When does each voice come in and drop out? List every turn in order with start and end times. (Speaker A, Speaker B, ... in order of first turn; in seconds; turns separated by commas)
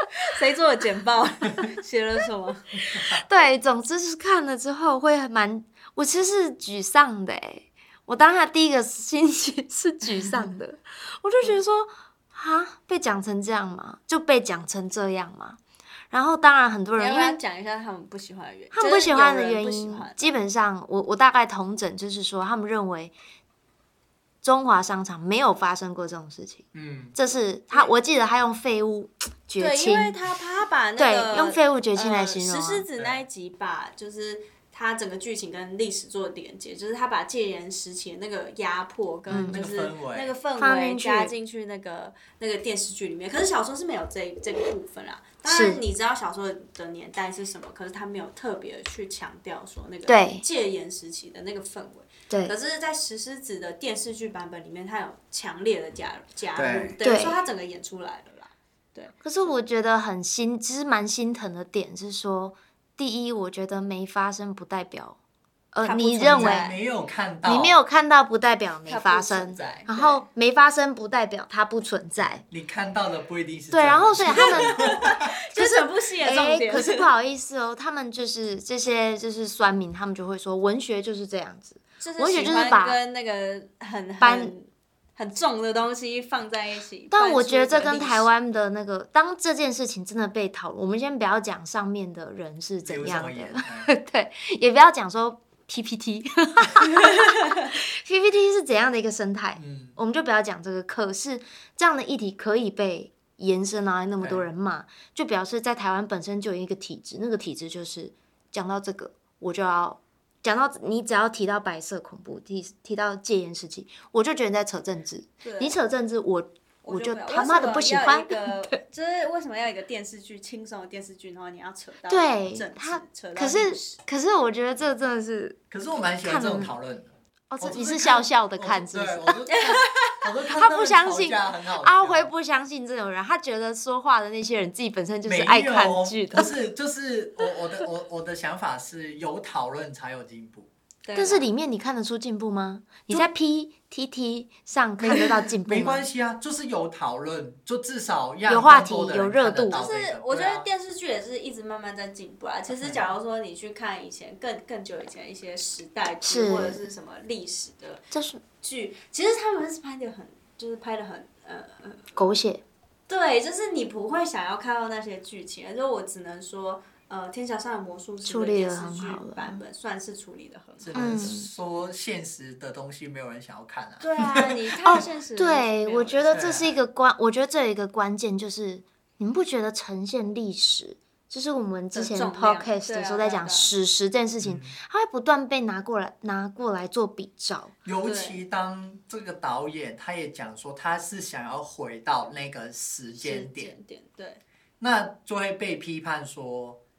Speaker A: 0.2-2.8, Speaker B: 3.0-15.6, Speaker B: 16.1-17.4, Speaker A: 17.0-20.4, Speaker B: 18.7-23.1, Speaker B: 24.4-30.2, Speaker C: 26.7-27.2, Speaker A: 29.6-59.5, Speaker B: 31.0-32.9, Speaker C: 33.0-33.2, Speaker B: 39.3-39.6, Speaker C: 39.3-40.4, Speaker B: 40.6-41.3, Speaker B: 45.5-45.8, Speaker B: 50.1-50.5, Speaker B: 52.3-52.5, Speaker C: 56.6-57.0, Speaker B: 57.0-57.4, Speaker B: 59.2-65.2, Speaker B: 65.7-66.7, Speaker A: 65.8-66.8, Speaker C: 66.2-67.8, Speaker B: 67.5-72.4, Speaker A: 68.9-70.2, Speaker C: 69.6-69.9, Speaker C: 72.2-75.2, Speaker B: 73.7-75.0, Speaker A: 74.4-77.1, Speaker B: 75.5-83.0, Speaker A: 82.0-88.3, Speaker B: 84.2-84.5, Speaker B: 87.1-118.8, Speaker C: 92.8-93.9, Speaker C: 99.6-100.0, Speaker C: 104.2-104.5, Speaker A: 115.4-115.8, Speaker A: 116.8-124.0, Speaker B: 122.1-125.6, Speaker C: 125.7-132.3, Speaker B: 126.2-126.8, Speaker B: 127.5-129.4, Speaker A: 129.5-130.2, Speaker B: 130.6-136.5, Speaker C: 135.2-140.7, Speaker A: 141.1-141.5, Speaker B: 141.2-146.1, Speaker C: 145.0-150.7, Speaker B: 148.5-149.8, Speaker A: 149.7-158.1, Speaker B: 156.2-156.8, Speaker B: 158.1-158.4, Speaker A: 158.6-162.1, Speaker B: 162.2-162.6, Speaker A: 163.1-171.2, Speaker B: 168.2-169.6, Speaker C: 170.8-174.6, Speaker B: 170.9-171.5, Speaker A: 174.0-176.5, Speaker B: 174.9-187.7, Speaker C: 176.3-176.8, Speaker A: 181.9-183.7, Speaker C: 184.4-184.8, Speaker C: 187.8-193.7, Speaker A: 188.0-188.4, Speaker A: 193.2-194.4, Speaker C: 194.8-196.8